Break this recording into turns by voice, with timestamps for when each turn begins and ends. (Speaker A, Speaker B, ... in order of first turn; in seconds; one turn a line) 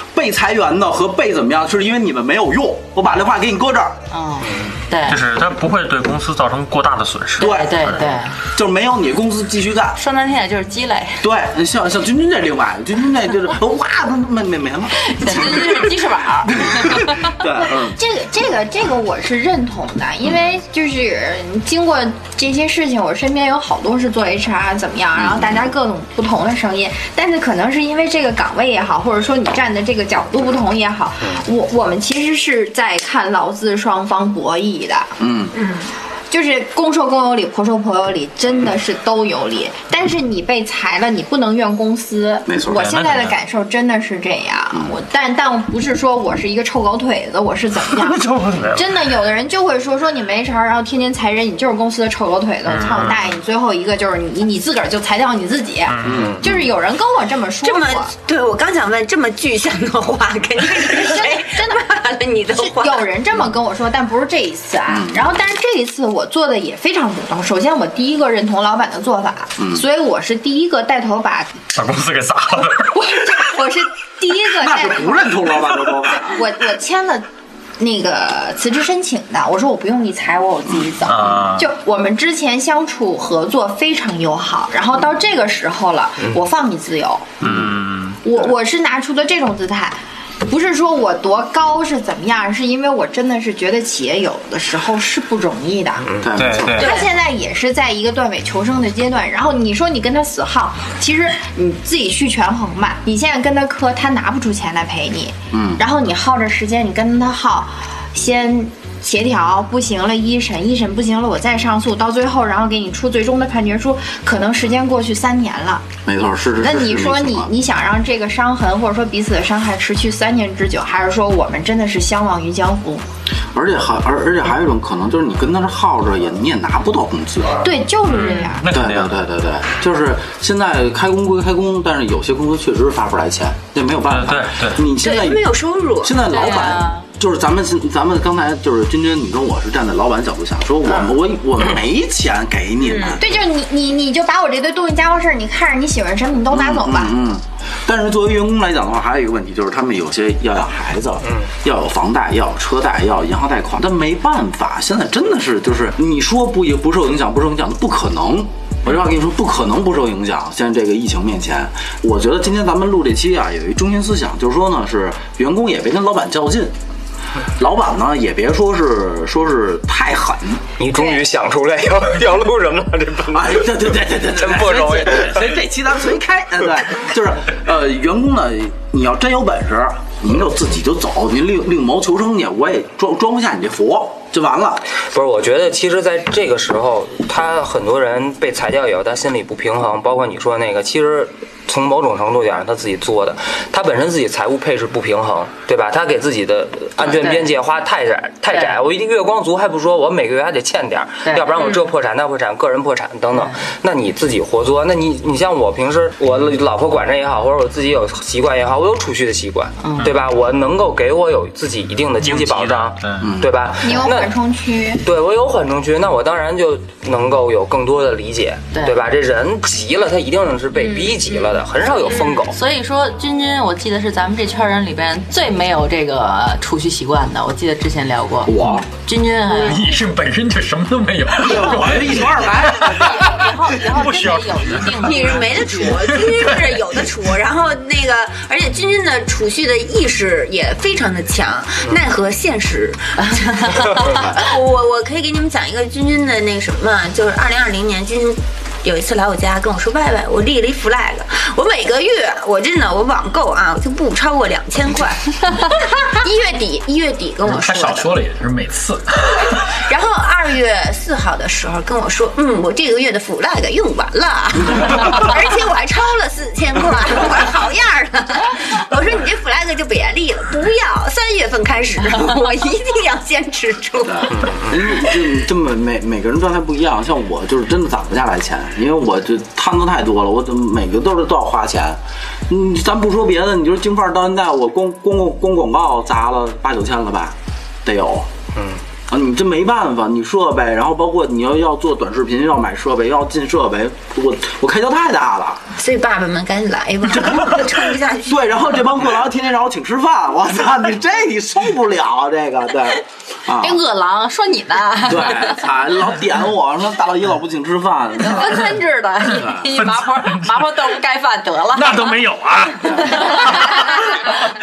Speaker A: 0.1-4.0
Speaker B: 4.1-5.2
Speaker C: 5.0-8.1
Speaker B: 7.4-8.3
Speaker A: 7.4-7.9
Speaker A: 8.5-10.0
Speaker B: 10.0-11.3
Speaker A: 11.2-18.0
Speaker B: 15.0-17.3
Speaker D: 17.9-58.1
Speaker A: 25.2-25.6
Speaker A: 35.2-35.5
Speaker A: 42.5-42.9
Speaker C: 42.8-43.4
Speaker C: 47.9-48.9
Speaker C: 52.7-53.3
Speaker C: 55.9-56.5
Speaker A: 56.0-56.5
Speaker E: 57.6-63.1
Speaker D: 60.7-71.5
Speaker A: 64.9-65.2
Speaker A: 69.6-69.8
Speaker C: 71.7-73.1
Speaker D: 73.0-77.3
Speaker A: 74.6-76.5
Speaker D: 77.8-87.4
Speaker C: 81.1-81.7
Speaker A: 87.4-87.7
Speaker C: 87.4-88.2
Speaker D: 88.2-96.1
Speaker F: 96.0-96.3
Speaker A: 96.2-96.8
Speaker C: 96.3-96.9
Speaker D: 96.8-115.9
Speaker E: 96.8-97.1
Speaker A: 105.5-105.8
Speaker A: 116.0-117.5
Speaker D: 116.6-123.0
Speaker A: 123.5-127.6
Speaker D: 127.6-128.7
Speaker C: 128.1-129.2
Speaker A: 128.7-143.3
Speaker C: 134.1-134.8
Speaker E: 134.9-136.5
Speaker B: 136.3-137.1
Speaker B: 142.9-143.1
Speaker D: 143.2-147.1
Speaker A: 146.5-166.7
Speaker F: 151.2-151.5
Speaker A: 167.6-170.6
Speaker F: 170.8-175.5
Speaker A: 173.3-184.8
Speaker F: 185.0-214.3
Speaker B: 197.1-197.5
Speaker B: 198.5-198.8
Speaker B: 201.2-201.8
Speaker B: 203.3-203.6
Speaker B: 209.8-210.1
Speaker C: 212.2-213.3
Speaker A: 213.2-213.5
Speaker D: 213.8-215.0
Speaker F: 215.0-222.6
Speaker D: 220.9-221.2
Speaker B: 222.1-229.9
Speaker A: 228.4-228.9
Speaker G: 229.5-233.0
Speaker A: 231.4-233.3
Speaker B: 232.9-236.0
Speaker G: 233.8-235.1
Speaker C: 234.1-234.9
Speaker E: 234.9-258.1
Speaker G: 236.1-236.8
Speaker B: 243.2-244.1
Speaker G: 257.4-259.7
Speaker E: 259.7-274.5
Speaker A: 274.0-288.3
Speaker F: 274.4-274.7
Speaker F: 288.6-288.8
Speaker A: 289.1-295.6
Speaker E: 295.8-298.6
Speaker A: 297.1-303.8
Speaker B: 303.6-305.6
Speaker A: 305.0-309.7
Speaker B: 308.2-312.2
Speaker G: 310.0-310.6
Speaker G: 311.7-313.9
Speaker B: 313.1-313.6